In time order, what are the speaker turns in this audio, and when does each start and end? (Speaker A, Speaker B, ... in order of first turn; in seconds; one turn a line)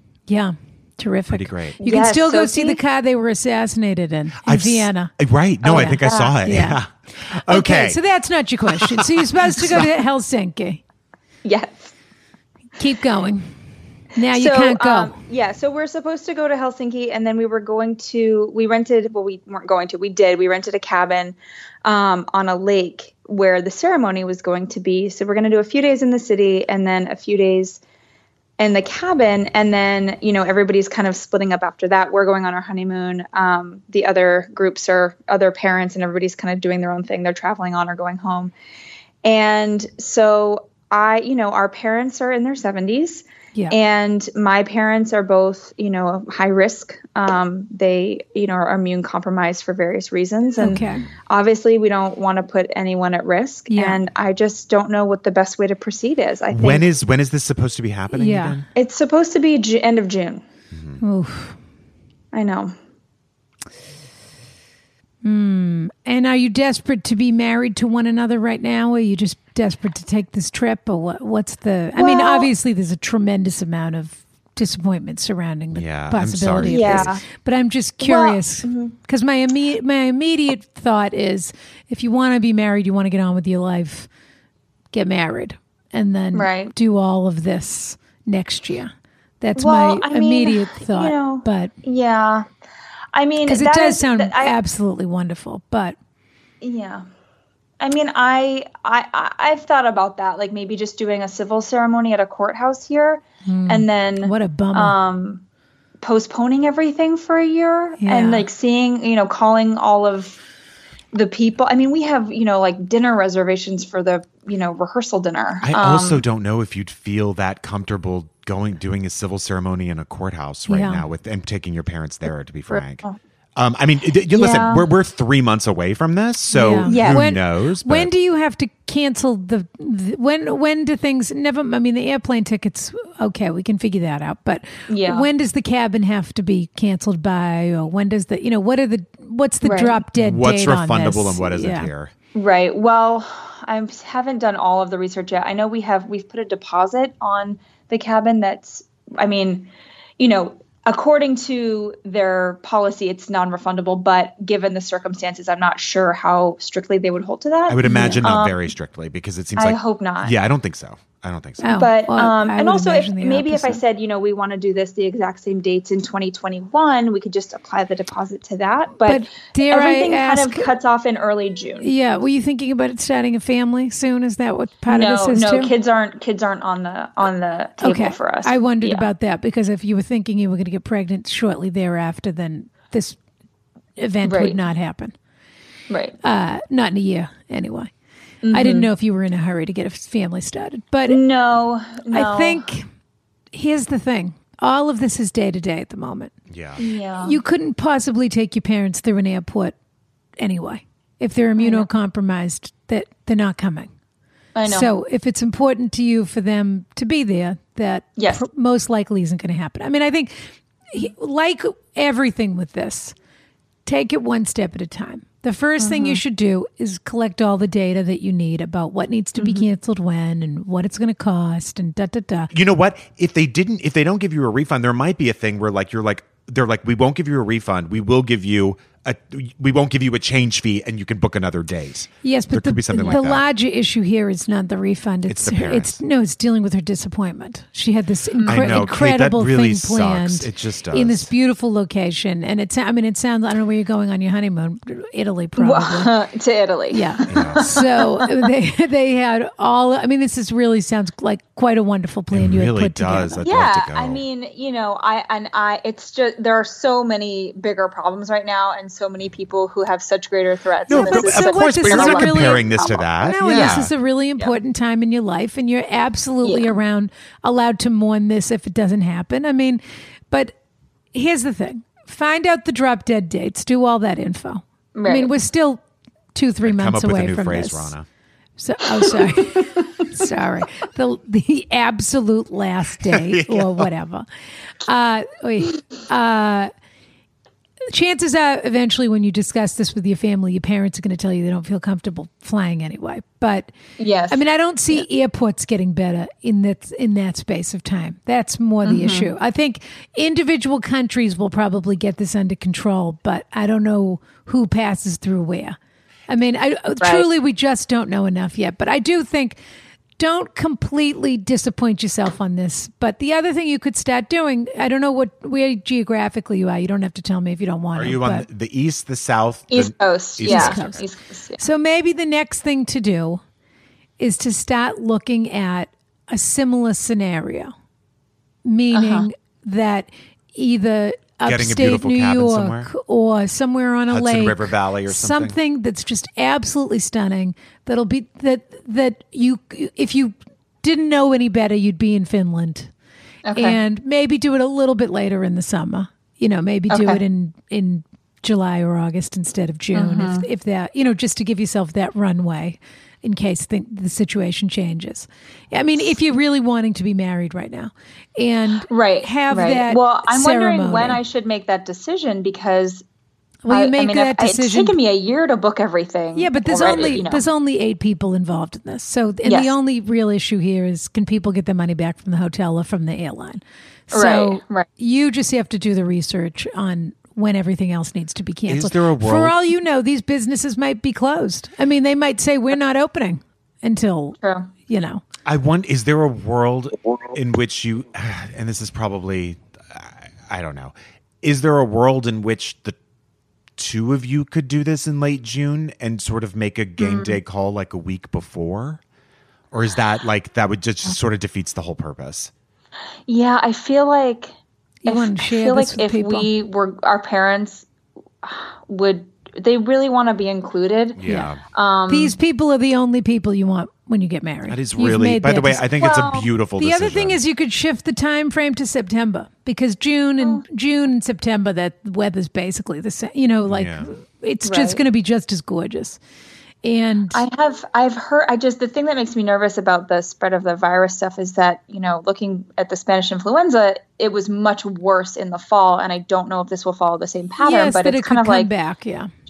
Speaker A: 0.3-5.1
Speaker B: 1.3-1.8
Speaker C: 1.8-2.8
Speaker B: 4.4-8.0
Speaker C: 5.6-6.3
Speaker A: 5.7-6.8
Speaker A: 7.3-10.8
Speaker B: 8.7-9.9
Speaker C: 11.4-11.9
Speaker A: 12.8-13.5
Speaker A: 14.1-15.1
Speaker C: 14.2-27.8
Speaker C: 28.6-38.5
Speaker C: 39.2-56.9
Speaker A: 50.6-51.0
Speaker A: 53.7-54.0
Speaker B: 56.5-58.6
Speaker A: 58.1-58.6
Speaker C: 58.8-60.4
Speaker B: 60.7-61.0
Speaker A: 61.0-61.5
Speaker C: 62.3-62.7
Speaker A: 65.2-84.1
Speaker C: 72.0-72.5
Speaker B: 75.7-77.1
Speaker C: 76.6-77.2
Speaker C: 78.0-78.9
Speaker A: 84.9-91.7
Speaker C: 86.3-86.7
Speaker C: 89.6-92.5
Speaker C: 93.1-94.5
Speaker A: 93.5-96.0
Speaker C: 96.6-97.0
Speaker C: 97.8-105.4
Speaker A: 103.5-105.0
Speaker C: 106.0-110.4
Speaker A: 108.0-108.5
Speaker C: 111.1-116.2
Speaker B: 115.6-123.0
Speaker A: 120.7-121.0
Speaker C: 122.7-123.2
Speaker B: 123.5-128.1
Speaker C: 124.3-124.9
Speaker A: 126.5-141.9
Speaker C: 126.9-127.3
Speaker C: 134.9-135.3
Speaker C: 139.6-140.0
Speaker B: 140.1-142.1
Speaker C: 142.3-158.7
Speaker B: 157.7-161.8
Speaker A: 157.8-158.2
Speaker C: 159.6-160.3
Speaker A: 161.6-163.8
Speaker C: 161.7-171.9
Speaker A: 169.1-170.7
Speaker A: 171.8-175.7
Speaker C: 174.9-179.1
Speaker A: 177.8-183.2
Speaker A: 184.0-185.1
Speaker C: 184.2-184.6
Speaker C: 185.9-186.2
Speaker A: 186.2-187.9
Speaker C: 188.4-188.9
Speaker A: 188.5-191.2
Speaker C: 191.1-192.7
Speaker A: 192.1-192.9
Speaker A: 193.5-196.3
Speaker B: 196.5-196.8
Speaker C: 196.8-197.4
Speaker A: 197.2-199.7
Speaker A: 200.4-203.9
Speaker C: 201.6-201.9
Speaker C: 204.5-204.9
Speaker A: 204.6-210.3
Speaker C: 208.2-208.4
Speaker A: 210.9-213.1
Speaker A: 213.8-222.5
Speaker C: 215.8-216.2
Speaker C: 219.3-219.6
Speaker B: 222.5-233.4
Speaker A: 232.2-246.1
Speaker B: 235.3-236.0
Speaker C: 238.4-238.7
Speaker B: 238.5-241.3
Speaker C: 245.6-248.3
Speaker A: 246.9-253.5
Speaker B: 247.3-247.6
Speaker B: 252.3-254.2
Speaker C: 253.4-263.8
Speaker B: 260.9-263.9
Speaker A: 260.9-270.5
Speaker C: 266.4-266.7
Speaker A: 271.1-275.8
Speaker C: 274.9-275.3
Speaker A: 276.3-277.9
Speaker B: 276.6-278.1
Speaker A: 278.6-284.3
Speaker B: 283.0-283.9
Speaker A: 284.8-286.7
Speaker A: 287.9-293.7
Speaker C: 294.0-294.4
Speaker A: 294.3-305.8
Speaker C: 298.8-299.3
Speaker A: 306.3-309.6
Speaker C: 307.0-307.2
Speaker A: 310.2-318.4
Speaker B: 317.9-321.0
Speaker C: 319.7-321.6
Speaker A: 320.4-321.0
Speaker A: 321.6-323.4
Speaker A: 324.2-327.7
Speaker A: 328.6-342.9
Speaker C: 328.9-329.3
Speaker B: 331.4-332.9
Speaker B: 334.1-335.6
Speaker C: 343.4-343.8
Speaker A: 343.5-361.2
Speaker C: 346.9-347.2
Speaker C: 349.9-350.4
Speaker C: 358.9-363.0
Speaker A: 363.6-364.9
Speaker C: 363.7-367.4
Speaker A: 366.3-385.2
Speaker C: 369.4-369.7
Speaker C: 374.1-374.9
Speaker B: 378.7-379.6
Speaker C: 384.4-384.7
Speaker B: 385.4-392.9
Speaker B: 393.8-399.0
Speaker C: 397.0-397.4
Speaker B: 399.7-402.5
Speaker C: 403.3-404.5
Speaker A: 405.0-406.5
Speaker C: 405.1-407.9
Speaker C: 408.4-412.3
Speaker B: 411.1-411.6
Speaker A: 411.2-411.5
Speaker A: 412.1-415.9
Speaker B: 414.7-417.4
Speaker C: 416.0-416.5
Speaker A: 416.8-426.2
Speaker B: 423.7-424.1
Speaker C: 424.6-425.0
Speaker A: 426.8-427.4
Speaker C: 427.3-438.7
Speaker A: 437.6-439.3